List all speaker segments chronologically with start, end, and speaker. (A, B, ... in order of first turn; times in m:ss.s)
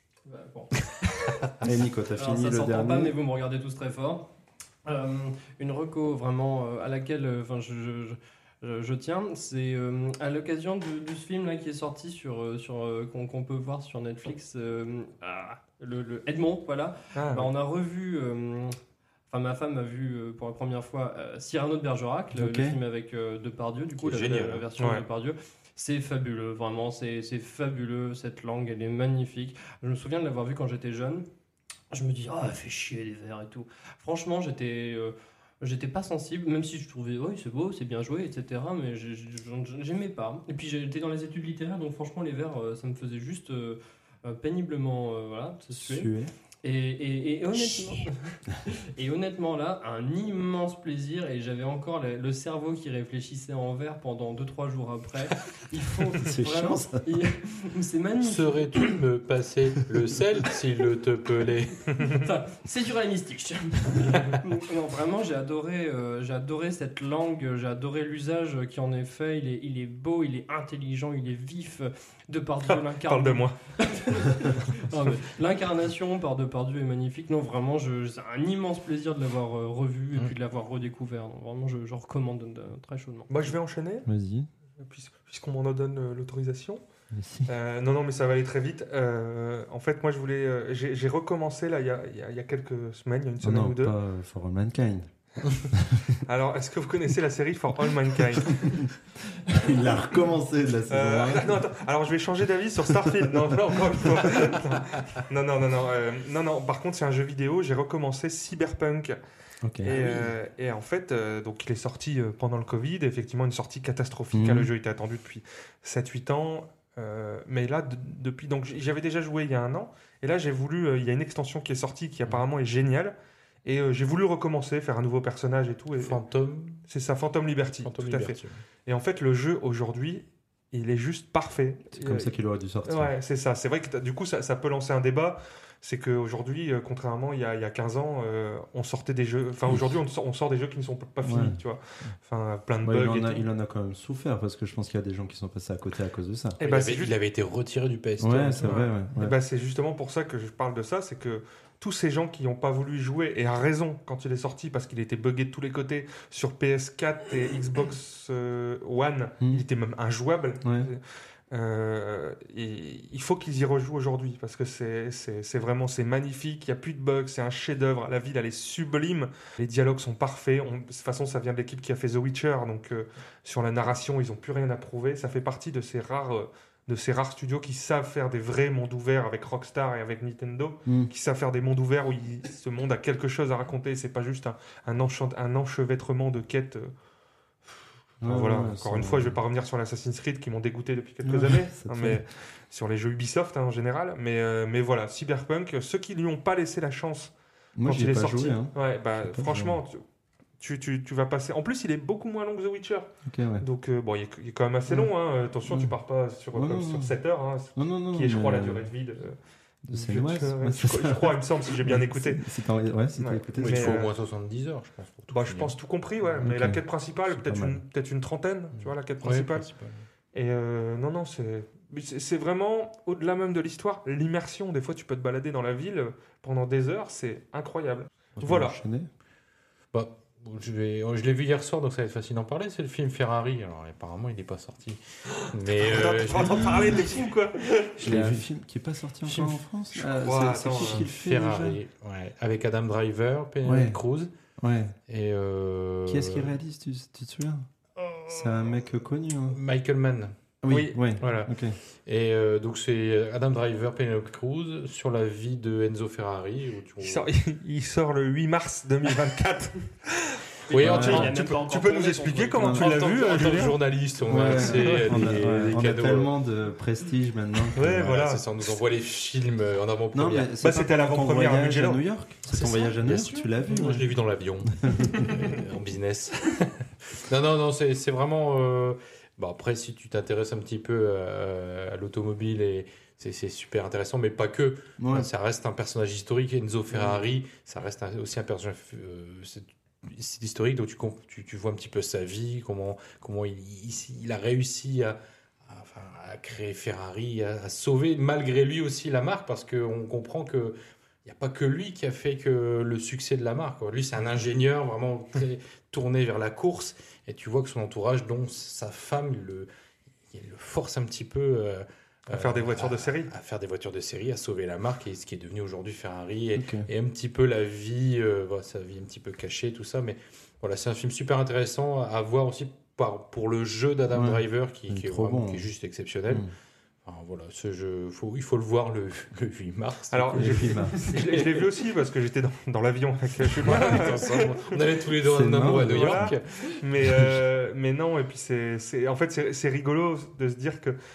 0:00.3-0:01.4 A
0:01.6-0:03.2 B
0:02.2-0:04.3 A
0:04.8-0:18.8 A
0:17.2-0:17.5 C
0:19.3-0:31.3 A
0:22.3-0:22.8 B
0:24.0-0:24.7 D
0:24.8-0:25.0 C
0:31.9-0:46.1 A
0:45.7-0:46.3 B
0:46.6-0:58.9 A
0:56.2-0:57.1 B
0:58.2-1:02.2 D
1:02.0-1:23.3 A
1:12.7-1:13.6 C
1:23.3-1:24.1 C
1:24.0-1:24.5 B
1:24.8-1:26.8 C
1:27.1-1:27.5 B
1:27.5-1:34.0 C
1:33.4-1:35.1 B
1:35.7-1:36.2 B
1:36.2-1:38.8 C
1:38.4-1:41.6 B
1:40.9-1:49.2 C
1:49.6-1:50.2 B
1:49.8-2:06.2 C
1:54.3-1:54.7 B
2:06.0-2:06.8 D
2:06.9-2:12.3 C
2:07.8-2:08.6 D
2:11.9-2:13.1 B
2:12.8-2:23.5 C
2:21.2-2:21.6 B
2:22.8-2:26.6 B
2:26.6-2:27.2 C
2:26.6-2:28.8 D
2:28.2-2:29.4 B
2:28.6-3:06.9 C
2:40.6-2:40.9 B
3:00.9-3:01.1 B
3:07.6-3:17.3 C
3:08.2-3:09.4 B
3:11.2-3:12.2 B
3:17.8-3:19.8 B
3:17.8-3:20.0 C
3:20.6-3:29.4 C
3:23.3-3:23.7 B
3:25.7-3:25.9 B
3:26.6-3:27.2 B
3:27.8-3:28.9 B
3:29.9-3:34.0 B
3:29.9-3:32.4 C
3:33.2-3:34.1 C
3:33.6-3:35.8 D
3:35.3-3:39.7 C
3:36.4-3:37.8 B
3:39.2-3:40.0 D
3:40.3-3:48.8 C
3:48.4-3:49.1 B
3:49.9-3:57.0 D
3:55.7-3:58.3 C
3:58.0-4:01.8 B
3:58.0-3:58.4 D
3:59.3-4:01.1 C
4:00.8-4:04.3 D
4:03.6-4:04.0 B
4:04.6-4:05.0 B
4:05.1-4:06.5 D
4:06.1-4:07.7 B
4:08.3-4:09.6 B
4:09.5-4:10.4 D
4:10.6-4:11.8 B
4:10.7-4:11.0 C
4:11.2-4:11.6 D
4:12.1-4:17.3 D
4:17.0-4:23.8 C
4:20.7-4:23.5 A
4:20.7-4:21.4 D
4:20.8-4:21.3 B
4:22.6-4:26.3 D
4:24.3-4:28.2 B
4:24.4-4:25.4 C
4:27.8-4:28.4 C
4:27.8-4:30.5 D
4:30.1-4:34.2 B
4:30.6-4:32.0 C
4:32.5-5:09.7 D
4:34.7-4:35.3 B
4:45.0-4:45.3 B
4:46.9-4:47.2 B
5:10.3-5:26.5 D
5:12.3-5:13.3 C
5:16.6-5:16.9 B
5:24.1-5:25.7 B
5:27.0-5:31.7 D
5:30.1-5:34.7 C
5:30.3-5:31.1 B
5:33.4-5:37.3 D
5:35.2-5:36.4 B
5:35.7-5:41.0 C